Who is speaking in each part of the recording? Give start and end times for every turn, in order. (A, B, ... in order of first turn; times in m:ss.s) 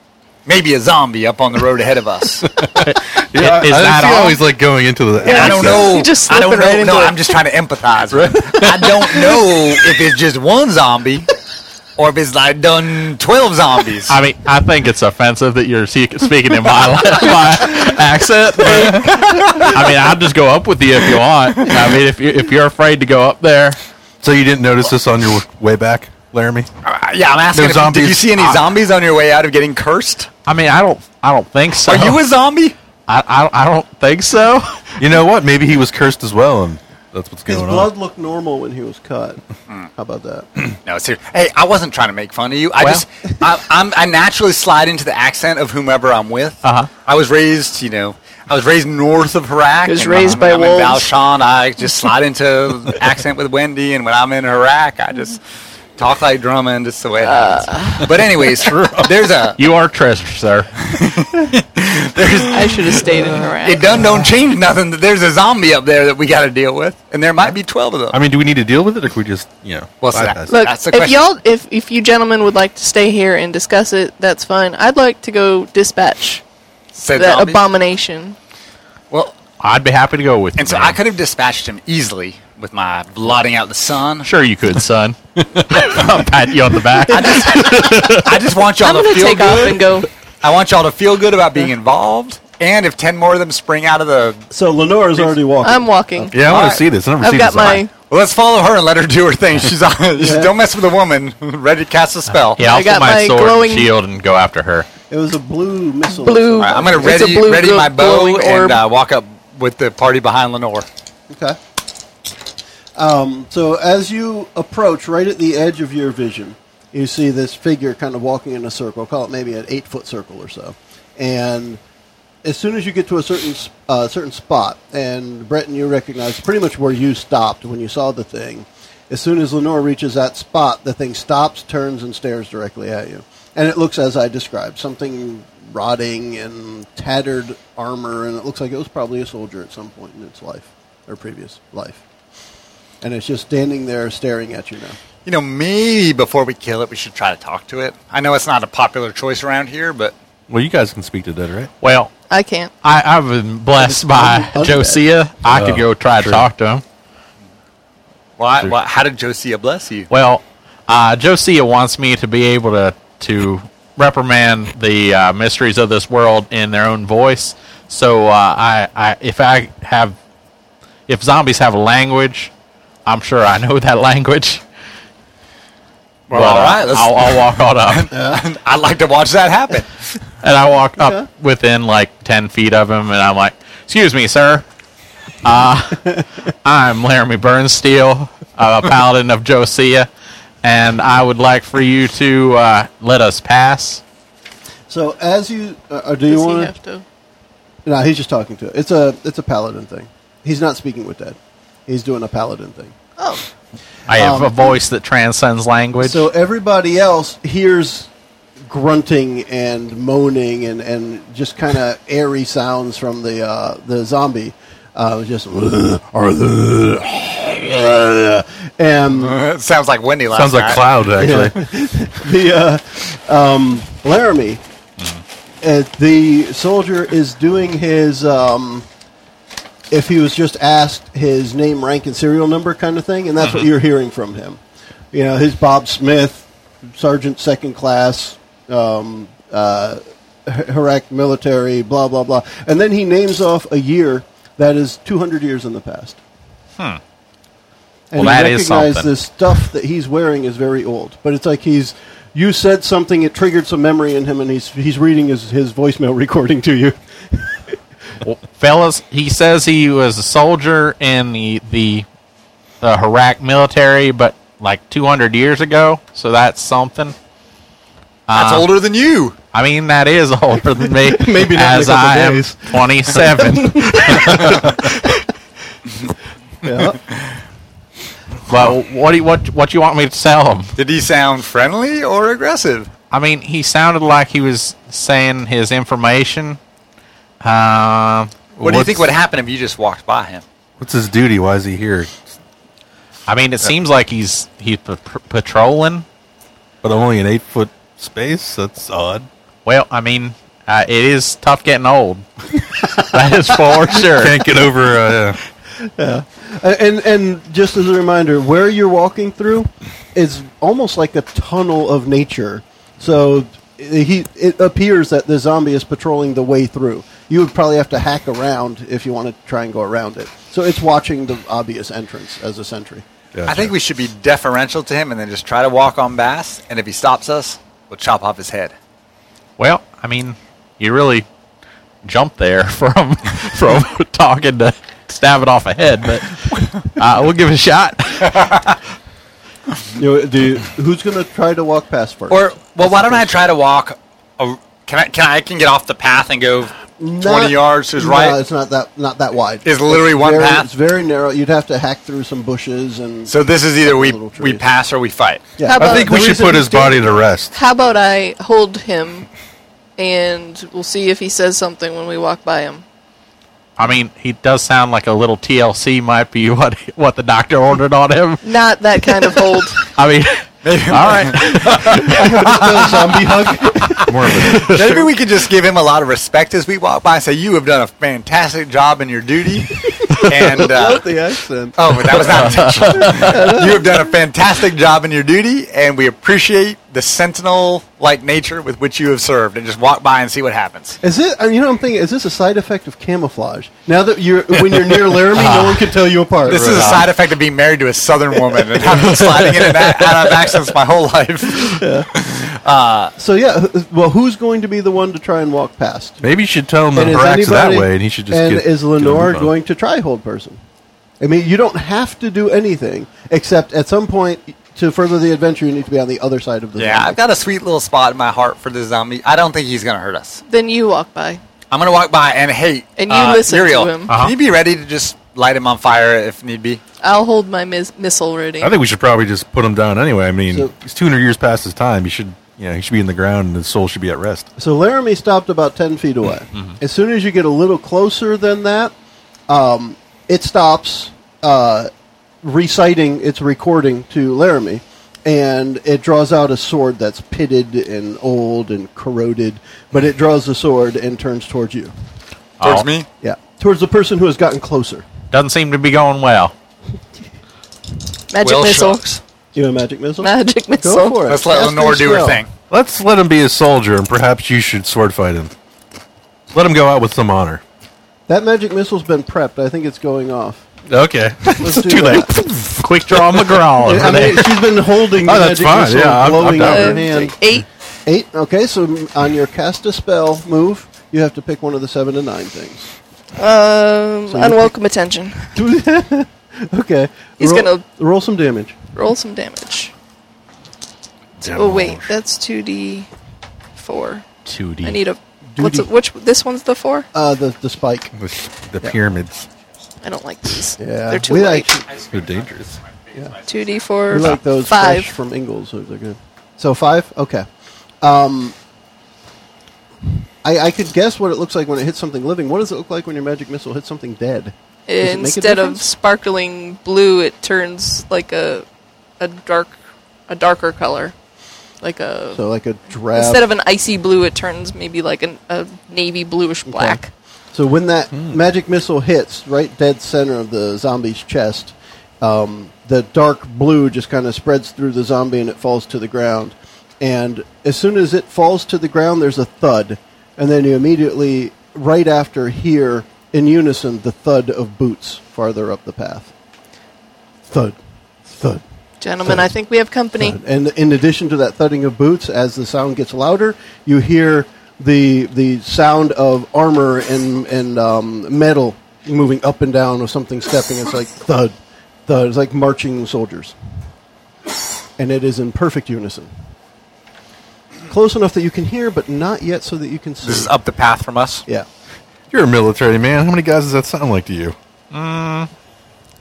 0:00.5-0:02.5 A
0:02.6-0:06.0 B
0:02.8-0:04.4 C
0:05.2-0:07.4 D
0:05.2-0:11.3 A
0:08.1-0:09.5 B
0:12.0-0:14.2 A
0:14.1-0:23.8 C
0:19.2-0:19.7 A
0:24.2-0:26.7 B
0:26.8-0:30.3 A
0:27.5-0:28.3 B
0:30.5-0:32.2 C
0:31.9-0:32.8 A
0:33.1-0:35.0 C
0:35.0-0:37.9 B
0:37.5-0:39.4 E
0:40.0-0:40.5 E
0:40.7-0:55.4 A
0:46.6-0:46.9 C
0:49.9-0:51.1 D
0:56.0-0:59.6 A
0:57.2-0:58.1 D
0:58.6-0:59.1 B
0:59.6-1:00.7 C
1:00.8-1:08.2 A
1:02.5-1:03.9 D
1:08.1-1:10.5 B
1:10.0-1:11.2 A
1:10.5-1:16.4 D
1:17.0-1:17.6 A
1:17.1-1:18.4 D
1:19.6-1:21.0 C
1:20.6-1:24.3 A
1:24.2-1:28.4 C
1:25.6-1:25.9 B
1:27.1-1:34.4 A
1:28.8-1:30.1 D
1:34.5-1:36.3 E
1:35.6-1:36.4 D
1:36.3-1:37.8 B
1:36.4-1:36.8 A
1:37.1-1:37.9 D
1:38.1-1:42.6 A
1:40.2-1:40.5 E
1:42.6-1:44.9 C
1:42.6-1:43.9 D
1:45.1-1:47.3 E
1:46.1-1:48.8 D
1:46.6-1:50.9 A
1:51.3-1:51.6 E
1:53.0-2:01.8 E
2:02.4-2:22.0 E
2:23.0-2:25.0 E
2:25.3-2:30.1 A
2:30.5-2:31.7 B
2:31.8-2:32.1 C
2:32.3-2:32.7 D
2:32.8-2:36.8 C
2:33.8-2:35.0 E
2:35.5-2:36.5 B
2:38.4-2:40.1 A
2:40.1-2:50.2 C
2:51.1-2:52.5 C
2:53.1-2:54.6 C
2:56.3-2:59.9 A
2:56.3-2:58.1 C
2:58.1-2:58.4 E
3:00.4-3:04.6 C
3:01.0-3:01.2 E
3:05.4-3:10.1 C
3:10.6-3:14.0 C
3:14.9-3:16.7 E
3:16.3-3:17.0 D
3:17.8-3:22.9 E
3:23.2-3:23.4 D
3:24.1-3:26.3 C
3:24.1-3:24.8 E
3:26.0-3:28.1 E
3:28.7-3:39.4 E
3:39.1-3:40.8 A
3:40.3-3:41.6 B
3:41.2-3:44.6 E
3:45.6-3:48.9 E
3:49.9-3:54.6 E
3:55.1-4:06.2 E
4:08.1-4:17.8 E
4:08.2-4:09.1 C
4:18.2-4:22.1 C
4:22.8-4:27.2 C
4:28.3-4:28.7 C
4:28.3-4:29.4 A
4:29.5-4:34.7 C
4:30.9-4:35.2 E
4:36.6-4:37.0 E
4:38.5-4:40.7 C
4:40.8-4:42.9 A
4:43.1-4:46.6 C
4:47.4-4:48.3 C
4:48.6-4:49.1 B
4:48.6-4:50.4 A
4:50.8-4:52.3 B
4:53.3-4:56.0 C
4:56.8-4:59.3 B
4:59.6-5:04.4 C
5:03.9-5:05.4 B
5:05.8-5:23.0 E
5:23.3-5:23.7 B
5:23.5-5:28.7 A
5:29.6-5:31.3 C
5:32.0-5:38.7 C
5:40.0-5:43.5 E
5:42.3-5:48.4 A
5:47.0-5:54.6 E
5:49.6-5:50.7 A
5:53.3-5:55.4 A
5:55.6-5:57.0 E
5:55.6-5:56.4 D
5:55.8-5:57.5 B
5:57.5-5:59.3 D
6:00.0-6:02.8 D
6:03.8-6:08.4 C
6:08.4-6:09.8 D
6:09.9-6:12.6 C
6:10.6-6:13.3 A
6:11.7-6:15.0 E
6:14.1-6:15.0 B
6:14.4-6:21.1 A
6:20.1-6:24.0 E
6:21.8-6:31.0 A
6:22.3-6:23.3 C
6:31.0-6:37.0 E
6:35.3-6:35.9 C
6:36.4-6:43.1 A
6:36.5-6:37.0 B
6:39.0-6:39.2 E
6:39.1-6:39.7 B
6:41.6-6:42.1 E
6:43.2-6:46.2 E
6:46.2-6:49.5 B
6:46.9-6:50.6 E
6:51.2-6:57.2 E
6:56.8-7:00.4 A
7:00.5-7:01.4 D
7:01.7-7:06.8 A
7:03.0-7:04.1 D
7:04.1-7:04.3 C
7:07.0-7:08.7 D
7:08.6-7:14.5 B
7:14.6-7:18.9 E
7:19.5-7:21.9 E
7:22.4-7:31.9 E
7:32.6-7:32.9 C
7:32.6-7:33.1 A
7:33.2-7:35.1 E
7:35.3-7:36.5 C
7:38.3-7:39.0 D
7:38.4-7:39.2 A
7:39.5-7:42.4 E
7:40.2-7:41.2 D
7:41.3-7:42.5 A
7:42.7-7:45.5 B
7:46.5-7:47.6 B
7:48.3-7:50.6 E
7:50.9-7:57.3 B
7:51.6-7:52.3 E
7:52.8-7:54.6 C
7:53.8-7:57.4 E
7:56.5-7:57.7 D
7:58.1-8:02.9 E
8:03.4-8:05.5 D
8:04.3-8:04.7 E
8:05.6-8:08.8 E
8:07.4-8:07.8 D
8:08.9-8:09.9 D
8:11.4-8:12.1 B
8:11.4-8:13.1 D
8:13.8-8:14.2 D
8:14.4-8:15.0 C
8:14.8-8:17.1 D
8:15.6-8:15.9 E
8:17.1-8:18.1 E
8:18.1-8:19.5 B
8:20.0-8:21.7 D
8:20.8-8:21.9 E
8:21.9-8:23.5 A
8:22.1-8:22.8 B
8:23.5-8:25.1 D
8:24.1-8:27.5 E
8:28.0-8:28.6 E
8:30.4-8:35.8 E
8:34.9-8:38.7 D
8:39.2-8:39.8 D
8:40.3-8:41.1 D
8:41.8-8:42.4 D
8:42.3-8:43.4 E
8:43.1-8:47.1 D
8:46.7-8:47.0 E
8:47.5-9:06.3 E
9:07.5-9:07.8 E
9:08.3-9:08.6 E
9:09.0-9:10.4 D
9:09.2-9:09.5 E
9:10.2-9:21.5 E
9:22.1-9:23.6 E
9:25.0-9:26.3 E
9:27.9-9:30.5 E
9:30.2-9:31.5 A
9:32.3-9:34.6 B
9:34.9-9:35.5 C